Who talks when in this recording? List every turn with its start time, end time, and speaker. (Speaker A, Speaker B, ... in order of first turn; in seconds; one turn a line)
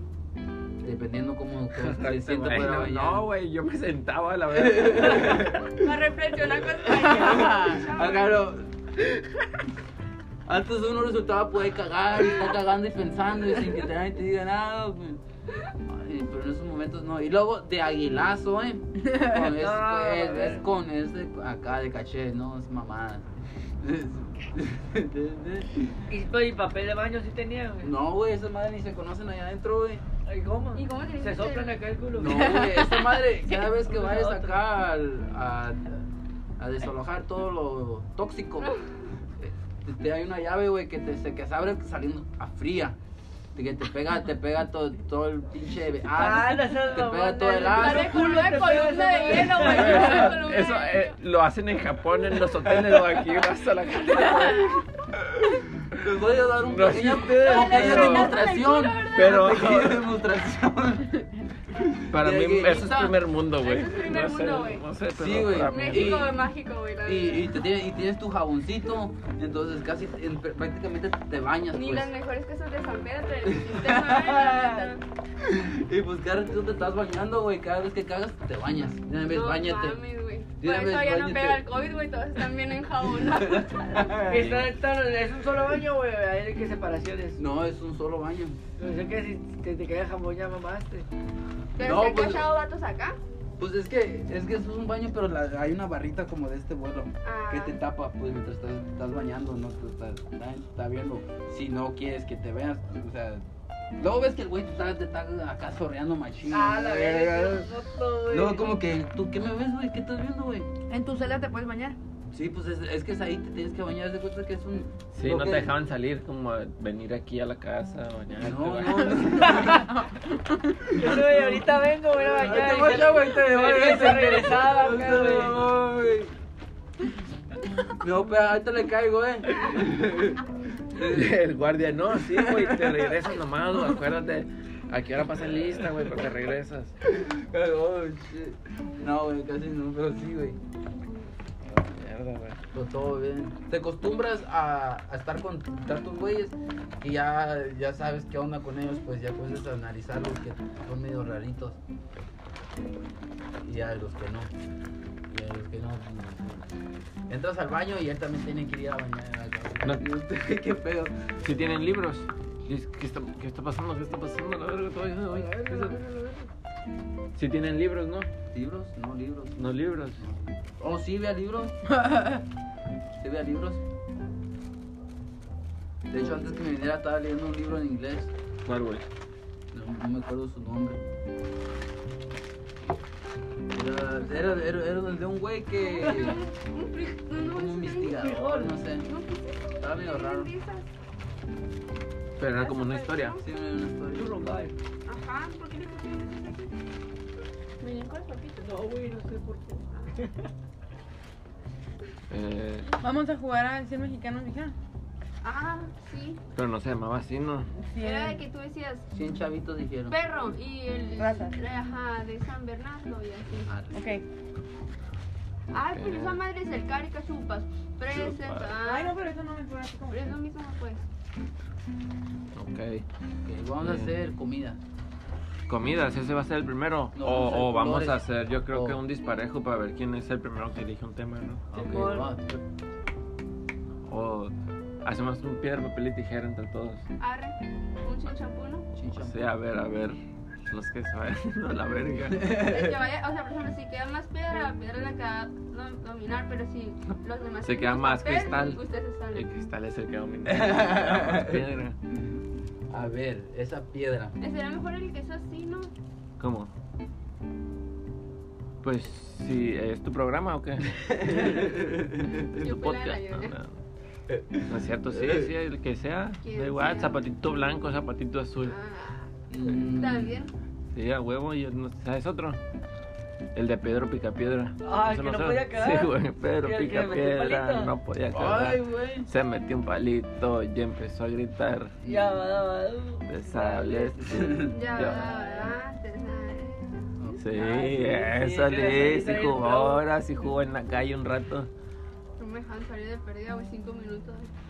Speaker A: 0.8-3.2
Speaker B: 1.7-5.6
Speaker A: 4.5-5.7
Speaker C: 5.8-8.3
Speaker A: 6.8-9.4
Speaker A: 10.5-15.2
Speaker A: 15.9-23.3
Speaker D: 19.1-19.3
Speaker E: 19.4-20.6
Speaker A: 23.8-25.9
Speaker E: 26.1-27.9
Speaker A: 27.8-30.0
Speaker E: 30.3-32.5
Speaker C: 30.8-31.8
Speaker A: 32.1-36.0
Speaker D: 32.2-33.2
Speaker E: 33.8-34.6
Speaker A: 36.6-38.7
Speaker A: 39.4-43.0
Speaker A: 43.5-48.3
Speaker E: 46.1-50.3
Speaker C: 47.7-51.2
Speaker B: 49.6-54.8
Speaker A: 55.9-61.2
Speaker B: 56.6-58.5
Speaker C: 57.4-59.7
Speaker B: 59.1-60.1
Speaker A: 61.8-63.2
Speaker B: 62.1-66.3
Speaker C: 63.6-64.9
Speaker A: 65.2-66.4
Speaker C: 65.7-67.6
Speaker A: 67.0-72.1
Speaker C: 71.7-75.0
Speaker A: 73.5-74.9
Speaker A: 75.4-80.0
Speaker C: 79.2-84.2
Speaker A: 80.6-81.6
Speaker A: 83.2-84.5
Speaker E: 84.3-87.4
Speaker B: 84.3-84.7
Speaker A: 87.4-88.6
Speaker E: 88.8-91.1
Speaker C: 91.8-93.2
Speaker A: 91.8-92.5
Speaker A: 93.6-103.5
Speaker C: 97.2-97.8
Speaker A: 104.0-107.7
Speaker E: 106.5-108.8
Speaker A: 108.3-110.7
Speaker D: 110.9-112.0
Speaker A: 112.3-115.7
Speaker B: 115.1-119.5
Speaker A: 118.4-119.9
Speaker E: 119.5-119.8
Speaker A: 120.9-121.6
Speaker E: 120.9-125.6
Speaker A: 122.3-126.3
Speaker A: 128.0-130.4
Speaker A: 130.9-131.3
Speaker B: 131.0-136.9
Speaker A: 132.2-133.2
Speaker A: 137.1-140.6
Speaker B: 141.7-142.6
Speaker A: 142.7-151.8
Speaker A: 153.6-154.5
Speaker A: 155.3-156.7
Speaker A: 157.3-161.4
Speaker B: 161.4-166.0
Speaker E: 165.3-166.5
Speaker B: 167.3-168.3
Speaker A: 168.5-171.8
Speaker B: 169.6-170.2
Speaker D: 172.0-172.4
Speaker A: 173.2-173.8
Speaker A: 176.1-178.3
Speaker B: 178.7-179.1
Speaker A: 179.7-181.0
Speaker A: 183.7-186.4
Speaker C: 185.8-188.4
Speaker A: 187.4-189.1
Speaker E: 188.2-188.8
Speaker C: 189.0-190.9
Speaker A: 189.8-190.5
Speaker B: 192.4-193.4
Speaker C: 192.5-193.4
Speaker A: 193.4-194.5
Speaker E: 194.1-194.7
Speaker C: 195.1-196.8
Speaker C: 197.8-198.7
Speaker E: 198.6-200.4
Speaker B: 202.3-202.9
Speaker D: 203.0-204.8
Speaker C: 205.4-206.4
Speaker B: 206.6-207.7
Speaker D: 207.8-208.4
Speaker C: 208.0-209.1
Speaker A: 209.1-210.2
Speaker C: 210.1-213.7
Speaker D: 211.2-211.6
Speaker A: 213.7-213.9
Speaker D: 213.9-214.2
Speaker C: 215.7-219.2
Speaker B: 215.9-216.4
Speaker B: 218.1-218.7
Speaker D: 218.8-220.3
Speaker C: 220.1-221.1
Speaker B: 222.5-223.1
Speaker A: 223.4-224.8
Speaker B: 223.8-224.2
Speaker B: 225.7-232.2
Speaker A: 227.2-229.0
Speaker A: 231.7-232.4
Speaker E: 231.8-232.4
Speaker B: 234.1-237.0
Speaker C: 237.2-238.9
Speaker A: 238.9-239.4
Speaker B: 239.1-242.5
Speaker A: 242.4-242.9
Speaker C: 242.5-249.5
Speaker B: 247.6-248.8
Speaker B: 249.3-252.0
Speaker A: 250.5-251.7
Speaker A: 252.9-254.4
Speaker C: 254.4-255.9
Speaker B: 256.4-256.7
Speaker B: 258.8-261.5
Speaker A: 261.2-262.5
Speaker C: 262.5-263.6
Speaker B: 262.6-263.8
Speaker A: 264.3-265.5
Speaker B: 264.7-268.8
Speaker C: 266.4-267.2
Speaker C: 268.6-270.5
Speaker A: 269.5-270.4
Speaker B: 270.9-272.6
Speaker B: 273.6-281.9
Speaker E: 274.8-277.9
Speaker A: 278.3-279.3
Speaker A: 282.0-282.4
Speaker E: 282.0-284.4
Speaker B: 283.3-285.3
Speaker A: 284.2-285.1
Speaker C: 284.6-287.4
Speaker E: 285.1-285.6
Speaker A: 287.2-288.1
Speaker B: 287.4-291.7
Speaker E: 287.6-290.0
Speaker C: 292.4-294.5